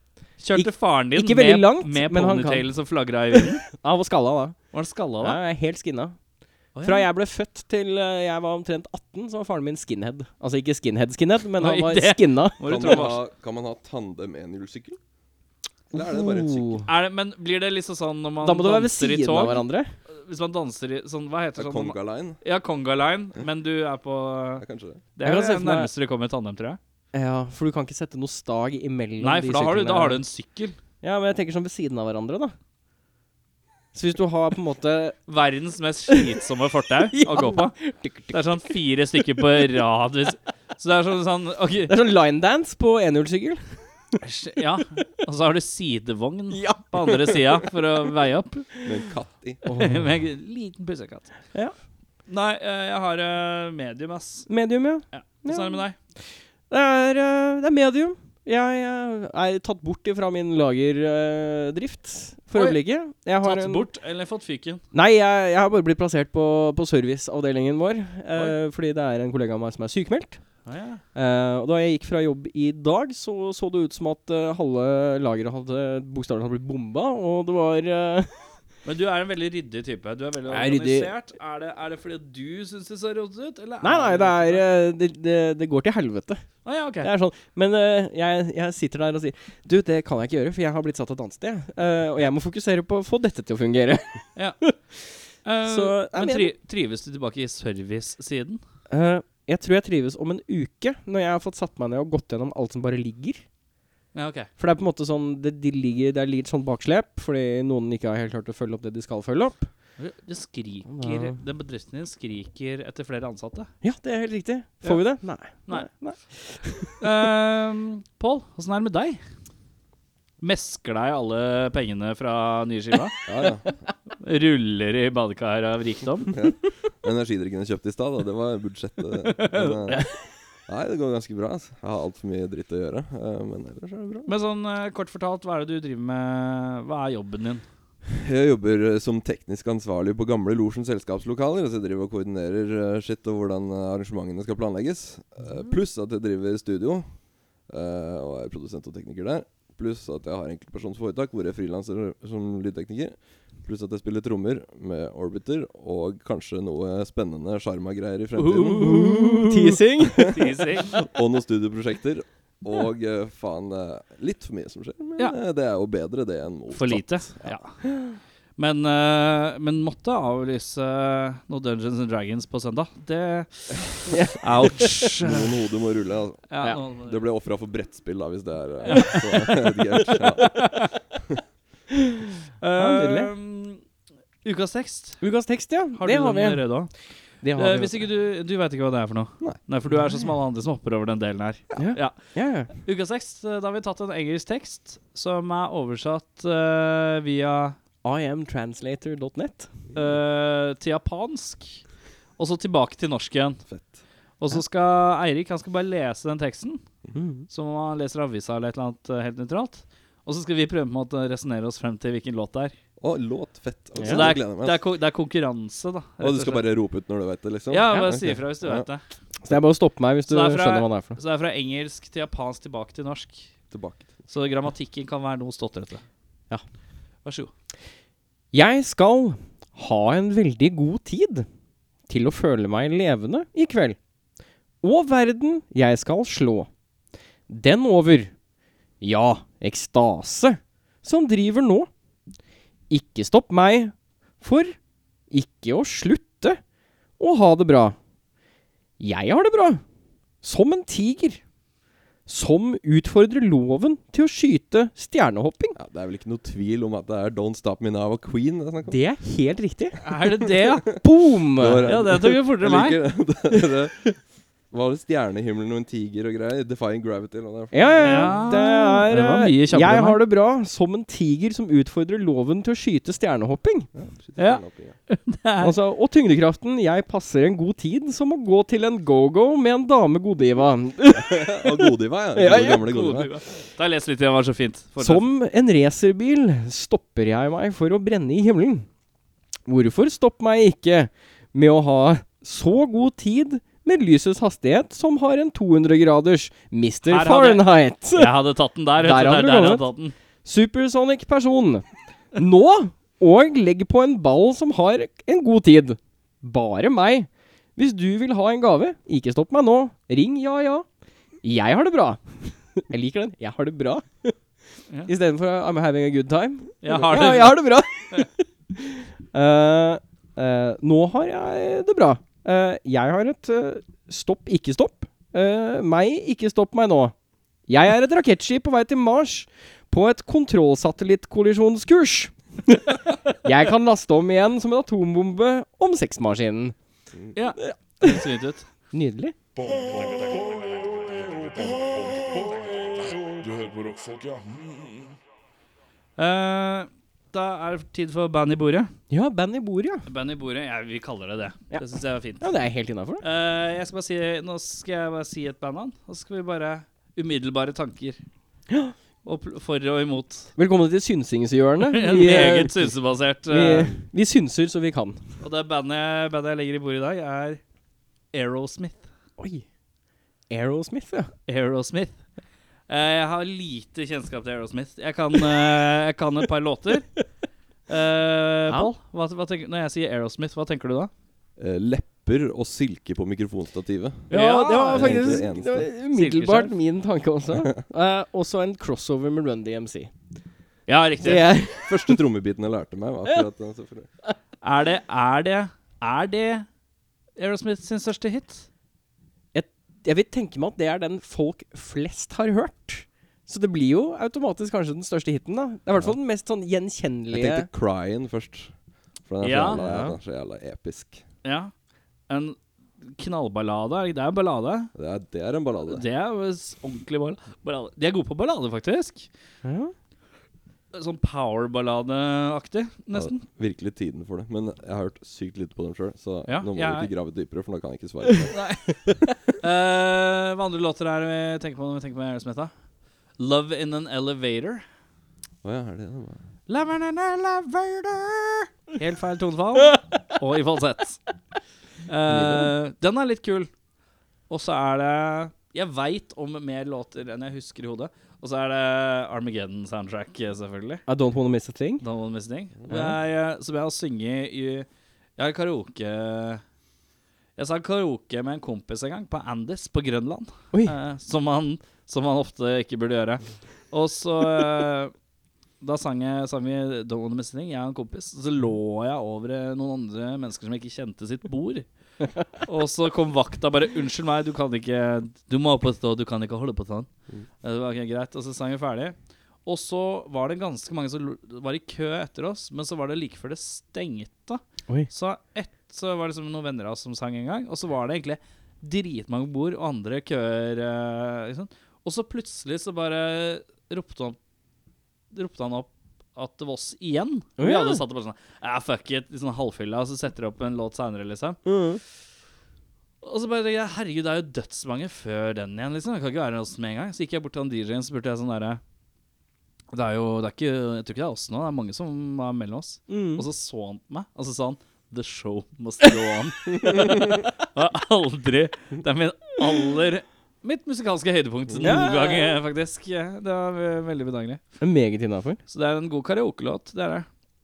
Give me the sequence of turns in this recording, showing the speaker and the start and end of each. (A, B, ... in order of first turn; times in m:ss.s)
0:00.4-0:03.6 A
0:00.5-0:02.7 B
0:03.3-0:04.6 B
0:04.7-0:05.4 A
0:05.2-0:06.2 B
0:06.8-0:07.1 A
0:06.8-0:13.0 B
0:11.6-0:13.2 A
0:12.6-0:15.0 C
0:15.9-0:16.9 C
0:16.0-0:16.8 B
0:16.8-0:24.6 A
0:18.4-0:19.9 B
0:21.6-0:22.4 C
0:24.6-0:25.0 C
0:25.2-0:26.8 A
0:25.2-0:25.9 B
0:27.1-0:30.2 B
0:29.2-0:30.8 A
0:31.0-0:32.6 B
0:33.9-0:35.2 B
0:35.3-0:37.8 A
0:37.1-0:38.8 B
0:38.3-0:42.0 A
0:41.9-0:43.7 B
0:44.2-0:48.7 A
0:46.5-0:47.4 B
0:48.8-0:49.6 C
0:49.7-0:50.0 B
0:49.7-0:51.3 A
0:52.3-0:54.5 A
0:54.5-0:55.8 B
0:55.1-0:56.0 A
0:56.7-1:03.9 B
1:02.6-1:02.8 A
1:03.4-1:04.8 A
1:04.9-1:10.4 B
1:10.7-1:11.0 A
1:11.2-1:18.5 B
1:18.8-1:24.6 A
1:20.5-1:21.1 B
1:23.8-1:26.4 B
1:26.6-1:27.1 A
1:27.0-1:35.0 B
1:35.4-1:38.6 A
1:35.7-1:36.5 B
1:38.9-1:43.4 B
1:44.2-1:44.5 A
1:44.6-1:49.7 B
1:50.0-1:53.7 A
1:50.9-1:51.4 B
1:53.8-1:57.0 B
1:57.0-1:59.2 A
2:00.4-2:03.2 A
2:03.3-2:03.8 C
2:04.2-2:06.3 A
2:06.3-2:10.1 C
2:09.4-2:10.0 A
2:10.7-2:14.3 C
2:14.3-2:17.6 A
2:18.2-2:39.4 C
2:38.4-2:39.7 A
2:38.7-2:40.4 B
2:40.2-2:47.6 C
2:40.2-2:41.0 A
2:46.7-2:47.8 A
2:47.8-2:48.2 B
2:48.6-2:55.4 A
2:54.1-2:55.1 B
2:55.2-3:01.4 C
2:56.5-2:57.2 A
2:58.9-2:59.5 A
3:00.4-3:00.9 A
3:02.6-3:03.8 A
3:02.8-3:03.3 B
3:04.4-3:05.2 A
3:05.2-3:06.8 B
3:06.0-3:06.9 A
3:07.4-3:08.1 B
3:07.6-3:12.2 A
3:09.9-3:10.2 B
3:11.8-3:12.7 B
3:12.7-3:17.8 A
3:18.0-3:19.7 B
3:20.0-3:21.8 A
3:22.4-3:23.6 A
3:23.7-3:24.0 C
3:24.4-3:26.8 A
3:27.1-3:27.5 B
3:27.5-3:32.7 A
3:33.0-3:34.8 C
3:34.0-3:34.3 B
3:34.0-3:36.6 A
3:36.2-3:38.9 C
3:37.7-3:39.0 A
3:39.4-3:41.2 B
3:40.3-3:43.5 A
3:43.7-3:44.1 C
3:44.3-3:46.0 A
3:47.2-3:47.5 A
3:48.5-3:51.5 B
3:52.1-3:54.0 B
3:54.8-3:56.7 B
3:57.5-3:58.3 B
3:59.0-4:01.9 B
4:02.9-4:04.8 B
4:05.3-4:06.6 B
4:07.2-4:08.0 B
4:09.0-4:09.8 B
4:10.4-4:11.4 B
4:12.3-4:15.8 B
4:15.8-4:19.0 C
4:18.9-4:20.0 B
4:20.0-4:20.9 A
4:20.6-4:21.0 C
4:21.0-4:21.9 B
4:21.6-4:24.2 C
4:21.9-4:23.0 A
4:24.7-4:28.4 C
4:27.7-4:33.9 B
4:28.0-4:30.2 A
4:34.0-4:35.0 C
4:34.4-4:35.7 A
4:35.6-4:42.9 B
4:41.2-4:43.3 C
4:42.9-4:45.2 A
4:45.0-4:48.9 B
4:49.7-4:58.4 B
4:57.1-5:00.2 A
4:59.0-4:59.9 B
5:00.4-5:10.9 B
5:11.4-5:14.4 B
5:15.1-5:27.2 B
5:16.8-5:18.3 A
5:27.7-5:36.8 B
5:37.4-5:38.7 A
5:37.6-5:38.2 B
5:38.9-5:39.4 B
5:39.6-5:45.2 D
5:46.2-5:48.9 A
5:49.1-5:50.1 B
5:50.1-5:52.5 A
5:52.4-5:53.2 B
5:53.2-5:58.2 A
5:59.2-6:00.5 A
6:00.6-6:02.8 B
6:01.9-6:04.0 A
6:03.5-6:05.2 B
6:05.4-6:07.6 A
6:08.3-6:09.0 A
6:09.4-6:09.6 B
6:10.5-6:11.3 B
6:11.5-6:12.2 A
6:12.9-6:17.1 A
6:17.9-6:21.1 A
6:21.6-6:25.9 C
6:24.3-6:25.4 A
6:24.3-6:30.1 B
6:26.1-6:26.8 A
6:30.9-6:31.5 A
6:31.2-6:32.2 B
6:31.8-6:34.1 C
6:34.6-6:36.7 A
6:37.4-6:38.7 A
6:39.5-6:47.7 B
6:47.3-6:51.2 C
6:49.4-6:49.8 A
6:49.7-6:50.2 B
6:51.4-6:51.7 A
6:52.3-6:54.9 A
6:55.0-6:56.0 C
6:55.9-6:59.3 A
6:59.6-6:59.9 B
7:00.9-7:03.4 A
7:03.1-7:08.9 C
7:06.5-7:07.1 A
7:08.5-7:12.7 A
7:13.4-7:14.8 A
7:15.6-7:16.4 C
7:16.7-7:21.2 A
7:22.1-7:23.7 A
7:22.4-7:22.6 B
7:24.5-7:31.0 A
7:31.1-7:32.0 B
7:32.0-7:36.6 A
7:32.8-7:33.1 C
7:37.6-7:45.1 A
7:45.8-7:51.9 A
7:52.6-7:57.1 A
7:57.6-8:14.4 A
8:15.3-8:21.6 A
8:17.6-8:18.0 B
8:21.6-8:22.0 B
8:23.2-8:28.8 A
8:29.9-8:44.6 A
8:33.1-8:33.5 B
8:41.7-8:42.0 C
8:41.8-8:42.6 B
8:44.8-8:45.6 B
8:45.7-8:47.3 A